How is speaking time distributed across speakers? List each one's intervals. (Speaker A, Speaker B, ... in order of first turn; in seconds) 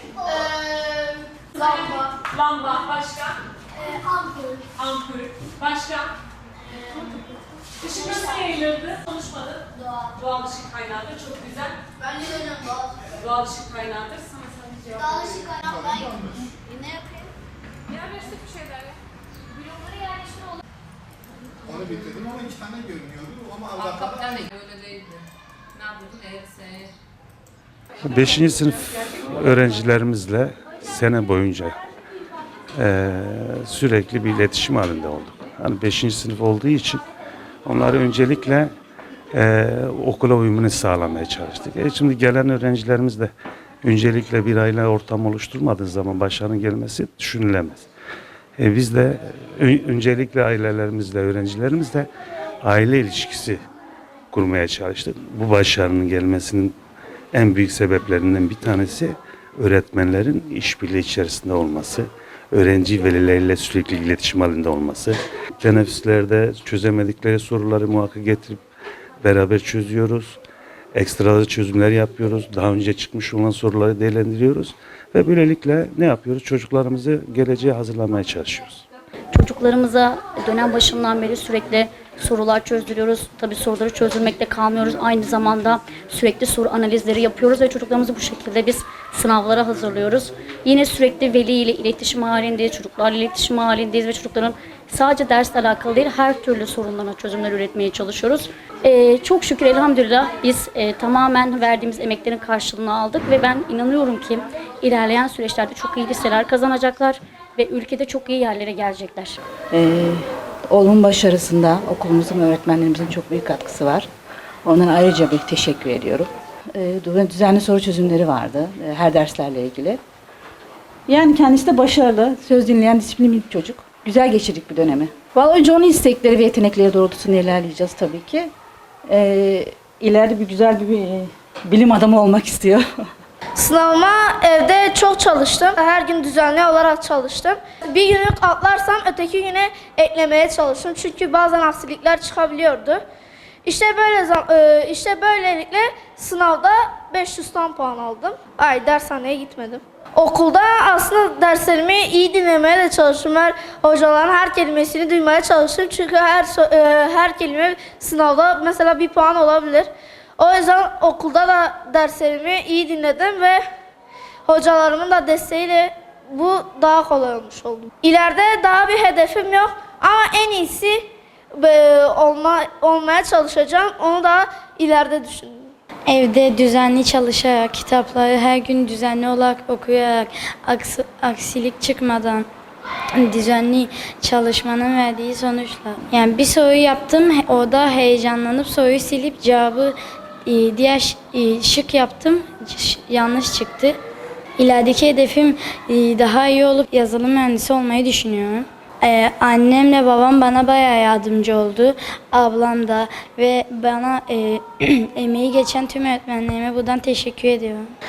Speaker A: 0.3-1.2, 3.9-4.5, 12.0-13.0, 15.6-15.9
Speaker B: 2.3-3.3, 4.8-6.1, 7.8-9.0, 10.2-11.8, 13.2-15.5
Speaker C: 15.5-16.5, 21.7-24.5
Speaker D: 23.8-25.2, 25.8-26.9
Speaker E: 28.0-31.8, 32.8-37.0, 37.6-38.7, 39.3-43.3, 43.8-47.9, 48.6-52.1, 52.6-53.6, 54.3-56.8, 57.3-68.6, 69.2-70.4, 70.9-78.9
Speaker F: 79.3-109.4
Speaker G: 109.7-114.1, 114.7-120.0, 121.1-128.5, 129.1-132.8
Speaker H: 133.6-143.0, 143.7-163.6, 164.5-175.7
Speaker I: 176.1-182.5, 183.2-189.9, 190.5-194.0, 194.6-207.9